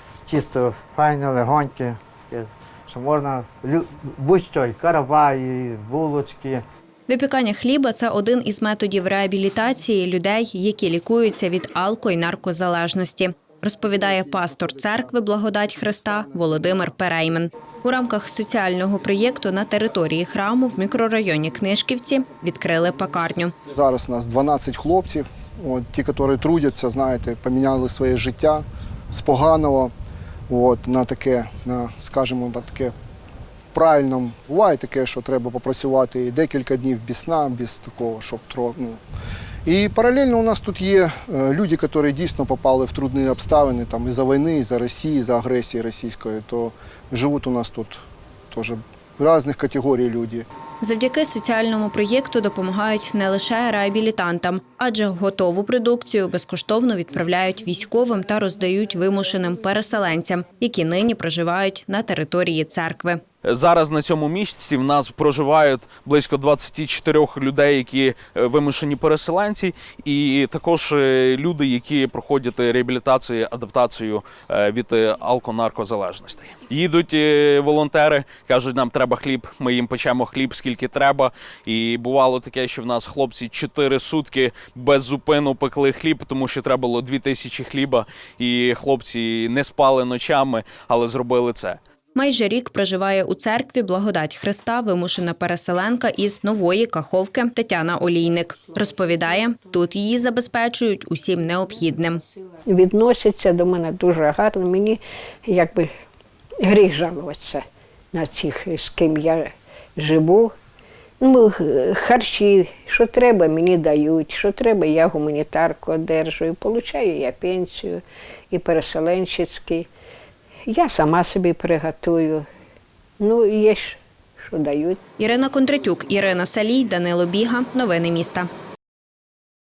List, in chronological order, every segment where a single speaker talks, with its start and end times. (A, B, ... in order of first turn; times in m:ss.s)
0:00.3-0:06.6 A
0:07.1-0:23.6 B
0:23.8-0:29.9 C
0:30.5-0:32.9 C
0:33.7-0:39.0 C
0:39.7-0:50.4 C
0:50.8-1:03.2 B
1:03.4-1:31.8 D
1:32.2-1:42.2 B
1:42.6-1:45.9 E
1:46.6-1:50.6 E
1:51.2-1:59.9 E
2:00.7-2:02.5 E
2:03.2-2:05.0 E
2:05.2-2:08.5 B